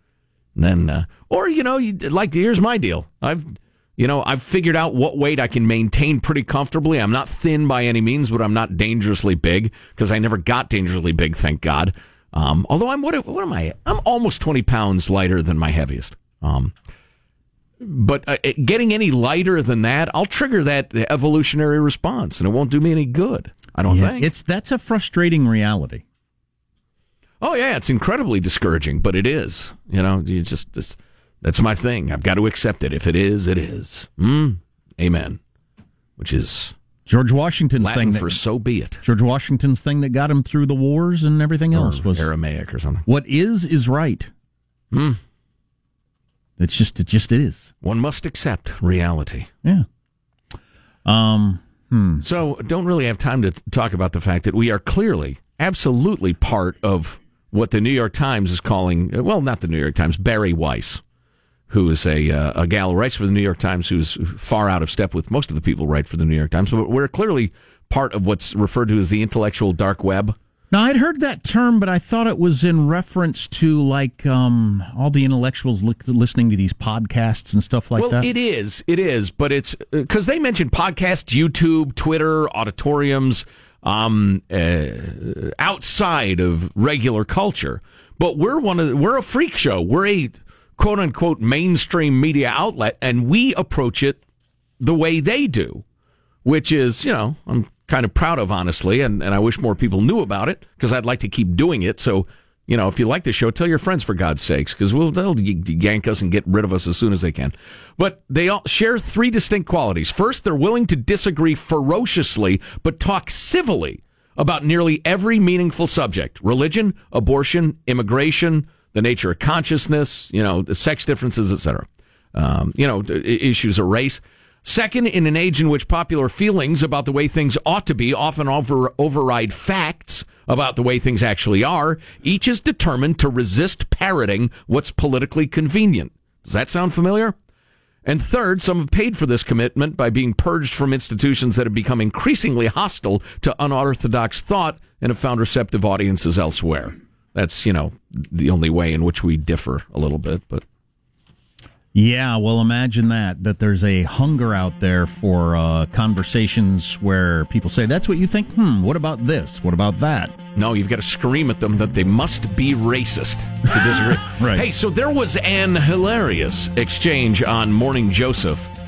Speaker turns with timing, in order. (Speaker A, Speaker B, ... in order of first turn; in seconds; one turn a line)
Speaker A: 0.6-16.7
Speaker A: 17.8-24.3
Speaker B: 23.9-26.0
Speaker A: 27.4-35.4
Speaker A: 36.2-36.7
Speaker B: 37.1-38.4
Speaker A: 37.8-39.0
Speaker B: 39.0-42.3
Speaker A: 41.7-43.0
Speaker B: 43.0-44.3
Speaker A: 44.9-45.2
Speaker B: 46.6-47.7
Speaker A: 47.8-49.5
Speaker B: 51.0-52.2
Speaker A: 52.2-61.0
Speaker A: 61.7-70.3
Speaker B: 70.7-78.3
Speaker A: 78.0-94.2
Speaker A: 94.8-95.8
Speaker A: 96.4-137.3
Speaker A: 138.0-150.6
Speaker B: 151.9-160.4
Speaker A: 160.5-168.7
Speaker B: 163.7-164.7